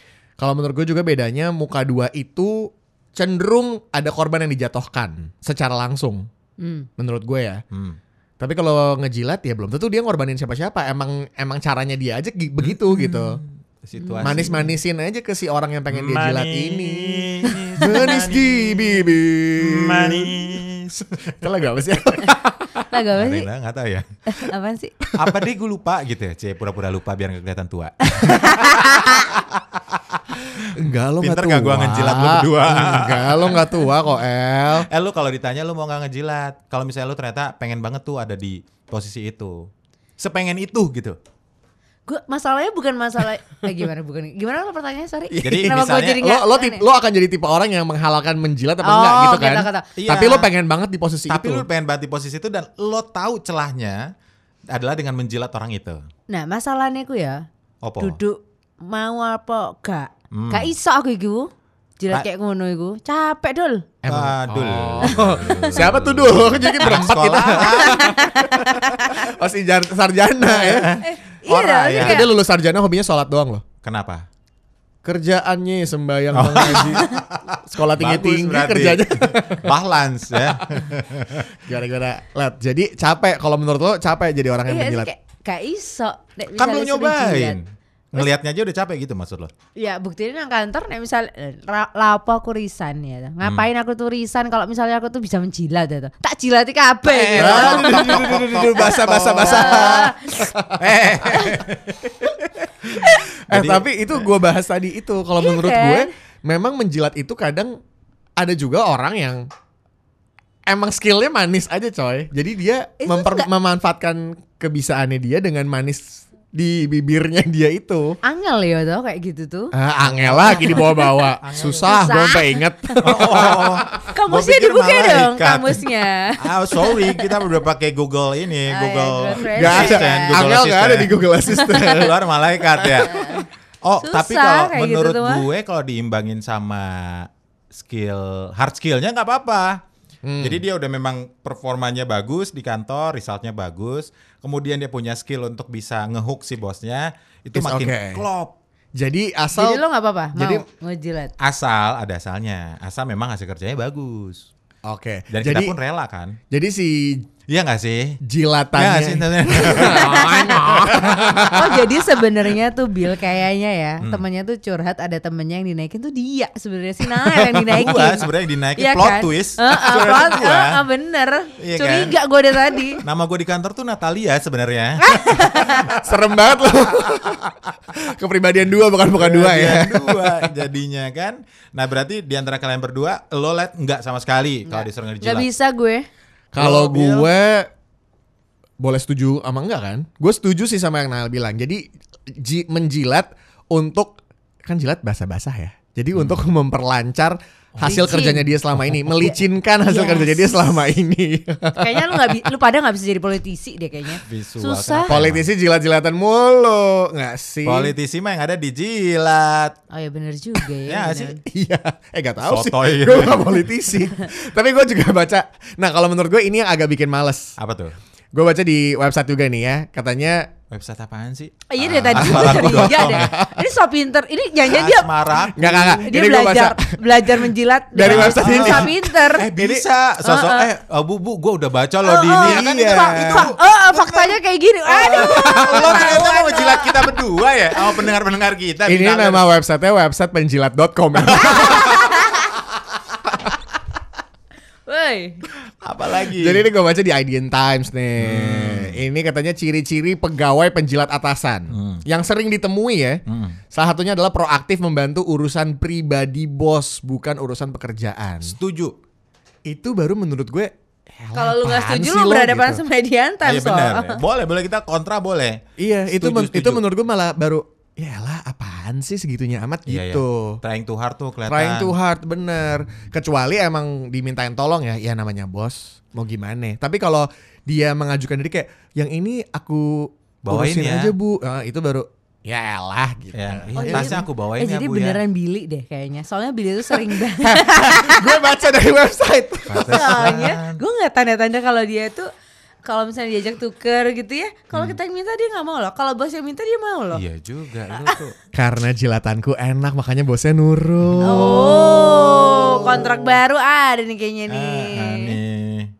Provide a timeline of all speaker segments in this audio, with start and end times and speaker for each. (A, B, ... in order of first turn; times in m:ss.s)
0:00.4-0:06.2 A
0:06.6-0:06.9 B
0:07.0-0:07.6 A
0:07.7-0:08.0 C
0:08.4-0:13.4 A
0:12.6-0:14.8 C
0:14.0-0:14.5 B
0:14.2-0:20.5 A
0:15.9-0:21.4 C
0:21.4-0:23.0 A
0:22.9-0:23.5 B
0:23.2-0:24.0 C
0:24.3-0:24.9 B
0:25.1-0:25.4 A
0:25.2-0:29.4 C
0:28.1-0:29.2 B
0:30.7-0:34.9 A
0:31.2-0:33.9 C
0:34.8-0:39.6 C
0:40.2-0:41.2 C
0:42.0-0:46.8 B
0:45.3-0:51.6 A
0:45.4-0:46.2 C
0:48.8-0:49.9 B
0:50.0-0:50.5 C
0:51.3-0:54.0 C
0:54.7-0:56.0 C
0:56.3-0:57.4 B
0:57.8-0:58.2 C
0:58.0-1:03.9 B
1:00.3-1:00.7 C
1:04.0-1:13.6 A
1:04.0-1:08.1 C
1:07.6-1:09.3 B
1:10.5-1:11.0 C
1:11.0-1:12.2 B
1:11.9-1:12.2 C
1:13.8-1:14.2 C
1:15.0-1:19.7 A
1:16.3-1:21.5 C
1:21.6-1:25.1 A
1:24.7-1:27.6 B
1:26.6-1:27.6 C
1:28.1-1:29.5 C
1:29.8-1:38.3 B
1:37.1-1:40.1 C
1:37.3-1:40.7 A
1:39.4-1:40.3 B
1:40.7-1:42.3 C
1:42.8-1:44.3 C
1:42.9-1:47.7 A
1:45.4-1:46.1 B
1:48.4-1:49.4 A
1:50.7-1:58.2 A
1:53.0-1:53.5 B
1:58.2-1:59.7 B
1:59.7-2:04.1 A
2:00.0-2:02.2 C
2:00.6-2:01.2 B
2:01.8-2:03.0 B
2:03.0-2:05.8 C
2:04.1-2:07.3 B
2:06.4-2:11.2 C
2:08.7-2:10.5 B
2:09.4-2:12.2 A
2:11.5-2:11.9 B
2:11.7-2:13.3 C
2:12.7-2:13.1 A
2:13.1-2:13.4 B
2:13.8-2:19.8 C
2:14.0-2:15.4 B
2:20.2-2:20.6 A
2:20.4-2:28.6 C
2:27.5-2:28.2 A
2:29.0-2:29.8 A
2:29.6-2:31.3 B
2:30.3-2:30.6 A
2:31.4-2:34.5 C
2:34.8-2:35.7 A
2:35.3-2:36.4 C
2:36.5-2:37.3 A
2:37.5-2:38.2 C
2:38.2-2:41.8 A
2:38.7-2:41.1 C
2:39.6-2:40.8 B
2:41.4-2:53.0 B
2:47.4-2:48.1 A
2:47.7-2:50.7 C
2:51.6-2:52.1 C
2:53.0-2:55.9 C
2:55.0-2:55.8 B
2:55.8-3:00.5 A
2:59.1-3:05.5 C
3:04.7-3:06.0 B
3:06.5-3:07.7 A
3:06.6-3:07.3 C
3:08.8-3:22.4 A
3:16.1-3:16.4 C
3:17.7-3:18.1 C
3:17.8-3:18.5 B
3:19.8-3:20.6 B
3:21.8-3:25.2 B
3:24.2-3:25.5 C
3:25.1-3:27.9 A
3:27.6-3:29.8 C
3:29.9-3:31.4 B
3:30.9-3:31.4 C
3:31.4-3:37.5 A
3:32.4-3:33.6 C
3:37.6-3:38.0 C
3:38.3-3:40.5 A
3:40.7-3:43.3 C
3:41.7-3:45.1 B
3:42.1-3:43.5 A
3:44.7-3:46.1 C
3:45.5-3:49.8 A
3:46.0-3:49.5 B
3:48.0-3:59.5 C
3:50.2-3:50.7 B
3:52.0-3:56.9 B
3:52.4-3:53.5 A
3:55.1-3:56.2 A
3:58.9-4:01.9 A
4:01.3-4:01.7 C
4:01.4-4:02.4 B
4:04.8-4:05.4 B
4:05.8-4:06.7 C
4:06.3-4:13.2 A
4:08.2-4:09.0 C
4:11.7-4:12.0 C
4:13.3-4:13.6 C
4:13.7-4:18.5 A
4:18.4-4:19.0 C
4:19.7-4:22.8 A
4:21.3-4:24.2 B
4:23.4-4:26.8 C
4:25.8-4:30.6 A
4:29.9-4:32.0 C
4:31.5-4:44.2 A
4:40.4-4:41.1 C
4:43.3-4:45.2 C
4:43.8-4:48.4 B
4:47.4-4:50.4 A
4:49.7-4:50.8 C
4:49.9-4:52.3 B
4:52.8-4:57.2 B
4:57.1-4:58.4 C
4:58.5-5:01.8 A
5:01.2-5:05.3 B
5:04.5-5:05.9 C